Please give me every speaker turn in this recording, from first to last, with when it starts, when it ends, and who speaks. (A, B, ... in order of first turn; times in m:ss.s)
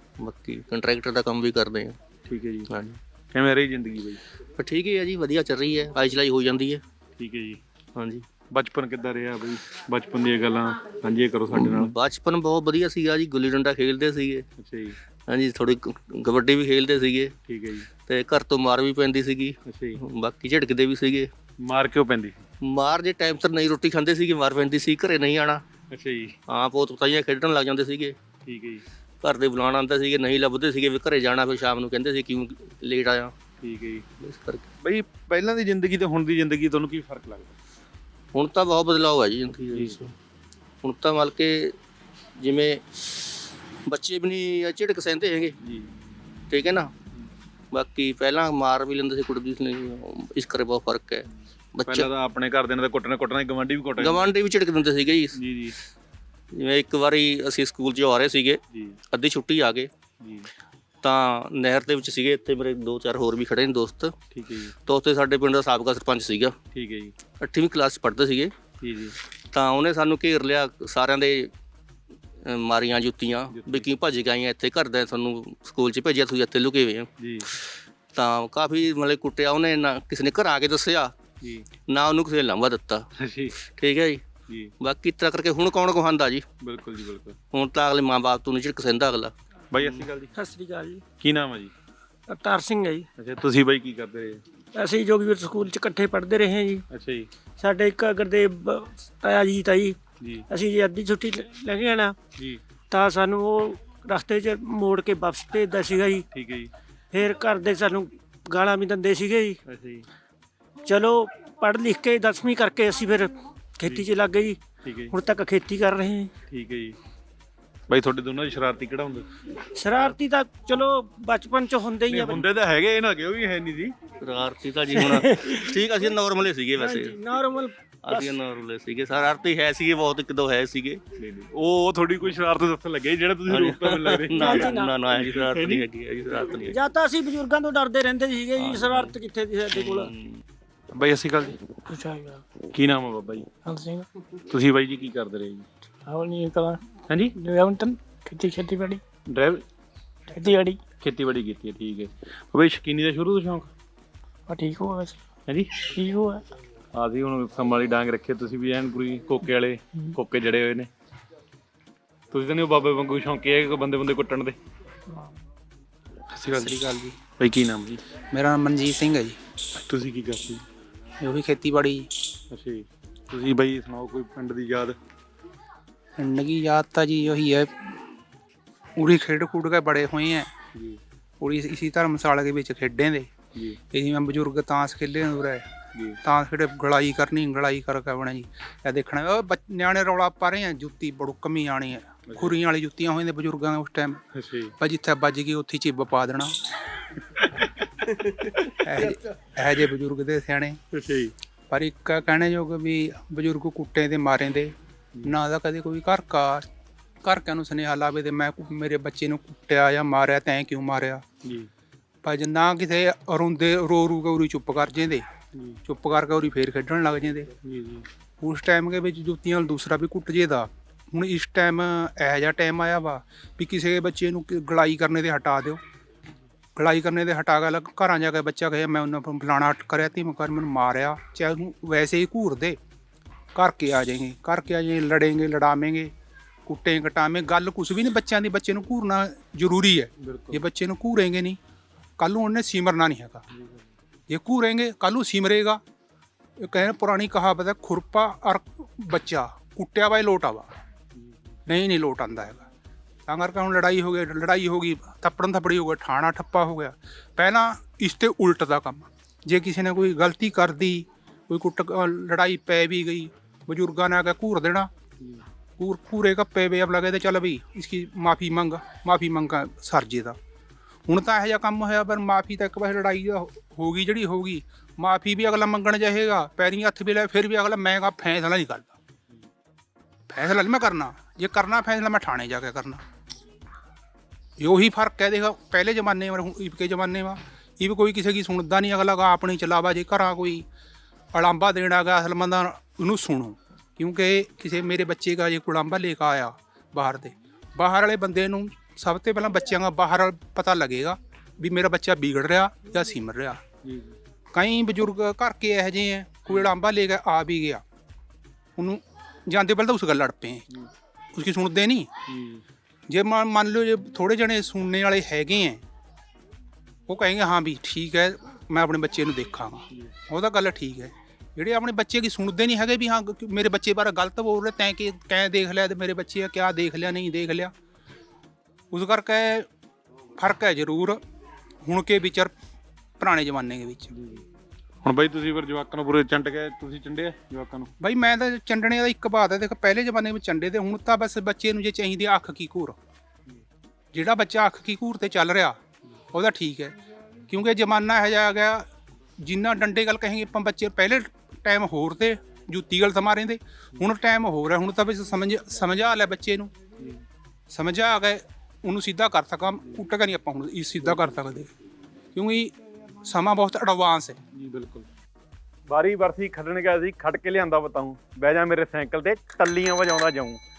0:00.2-0:02.0 A
0:02.3-0:02.7 B
0:02.7-0:03.0 A
0:03.3-0:04.2 B
0:04.6-0:06.8 A
0:07.2-0:07.6 B
0:08.0-0:08.2 A
0:08.5-0:11.9 B
0:11.5-0:14.4 A
0:14.6-0:15.0 B
0:15.3-0:17.3 A
0:17.5-0:17.9 B
0:18.0-0:21.3 A
0:19.6-0:20.0 B
0:21.6-0:22.4 B
0:22.6-0:25.6 A
0:25.9-0:26.4 B
0:26.5-0:28.2 A
0:28.4-0:28.8 B
0:29.2-0:33.3 A
0:33.6-0:34.0 B
0:34.2-0:34.6 A
0:34.8-0:37.5 B
0:38.3-0:40.1 A
0:39.7-0:40.0 B
0:40.8-0:41.7 A
0:42.4-0:45.5 A
0:46.5-0:46.9 A
0:47.7-0:52.1 A
0:51.9-0:54.3 B
0:54.0-0:55.3 A
0:55.4-0:55.8 B
0:56.5-0:58.6 A
0:58.7-0:59.0 B
0:59.1-0:59.9 A
1:00.2-1:00.5 B
1:01.0-1:04.1 A
1:04.3-1:04.7 B
1:04.8-1:06.6 A
1:06.7-1:07.1 B
1:07.4-1:08.5 A
1:08.8-1:09.2 B
1:09.5-1:11.5 A
1:12.4-1:17.6 A
1:13.5-1:13.9 B
1:17.2-1:17.5 B
1:18.1-1:21.1 A
1:21.4-1:21.6 B
1:21.9-1:23.0 A
1:23.2-1:23.6 B
1:23.7-1:24.2 A
1:24.8-1:26.4 A
1:26.6-1:27.4 B
1:27.5-1:29.3 A
1:29.7-1:30.3 B
1:30.3-1:31.0 C
1:31.2-1:31.7 B
1:32.3-1:33.0 C
1:33.2-1:34.4 B
1:34.8-1:36.8 C
1:36.9-1:37.3 B
1:37.6-1:40.0 C
1:40.5-1:42.1 C
1:42.9-1:46.2 C
1:46.3-1:46.7 B
1:47.1-1:49.6 C
1:49.7-1:50.0 B
1:50.8-1:54.6 C
1:54.8-1:55.1 B
1:55.1-1:56.3 C
1:56.5-1:57.0 B
1:57.9-1:59.2 B
1:59.8-2:02.4 C
2:02.1-2:03.9 B
2:04.2-2:07.2 A
2:04.9-2:05.7 C
2:06.8-2:08.3 C
2:08.0-2:11.0 A
2:11.2-2:15.8 B
2:13.5-2:16.8 A
2:14.3-2:14.9 C
2:16.7-2:20.1 C
2:18.6-2:19.1 A
2:19.8-2:20.4 A
2:20.9-2:21.6 B
2:21.9-2:22.4 D
2:22.7-2:23.5 B
2:23.6-2:24.0 D
2:24.5-2:25.7 B
2:26.0-2:26.8 D
2:27.1-2:27.3 B
2:27.4-2:29.0 D
2:29.3-2:29.6 B
2:30.3-2:30.8 D
2:31.0-2:33.7 B
2:34.5-2:35.2 D
2:35.5-2:35.7 B
2:35.9-2:36.4 D
2:36.9-2:40.9 B
2:42.3-2:44.6 B
2:46.3-2:46.8 B
2:46.6-2:47.2 E
2:47.4-2:48.0 B
2:48.3-2:49.4 E
2:49.8-2:50.6 B
2:51.2-2:52.1 E
2:52.5-2:55.0 B
2:56.2-2:57.9 E
2:59.0-3:00.5 E
3:00.7-3:01.0 B
3:01.4-3:03.3 E
3:03.9-3:05.6 E
3:06.2-3:14.2 E
3:14.3-3:14.7 B
3:14.8-3:16.5 E
3:17.4-3:19.1 B
3:18.8-3:20.8 E
3:20.9-3:21.3 B
3:21.7-3:26.7 E
3:27.2-3:31.2 E
3:31.4-3:31.7 B
3:32.2-3:35.2 E
3:35.8-3:37.5 E
3:37.6-3:38.0 B
3:38.4-3:45.8 E
3:46.8-3:52.8 E
3:53.5-3:56.1 E
3:56.7-4:01.6 E
4:00.2-4:00.6 B
4:02.2-4:03.4 E
4:03.5-4:03.9 B
4:04.3-4:05.8 E
4:06.6-4:10.7 E
4:11.7-4:12.7 E
4:13.3-4:24.9 E
4:25.8-4:30.4 E
4:31.1-4:38.9 E
4:40.3-4:43.0 E
4:44.6-4:50.6 E
4:51.3-5:03.6 E
5:03.8-5:04.2 B
5:04.5-5:07.8 E
5:08.8-5:10.6 E
5:11.3-5:12.1 E
5:12.3-5:12.6 B
5:13.1-5:15.8 E
5:17.1-5:27.7 E
5:28.9-5:29.7 E
5:30.4-5:31.2 E
5:31.8-5:32.5 E
5:33.2-5:34.1 E
5:34.1-5:34.4 B
5:35.0-5:37.9 B
5:38.0-5:43.0 E
5:44.1-5:45.8 E
5:46.3-5:46.9 E
5:47.5-5:48.9 E
5:49.4-5:56.7 E
5:57.7-6:01.7 E
6:02.3-6:02.7 E
6:03.2-6:04.4 E
6:04.5-6:05.0 B
6:05.9-6:10.6 B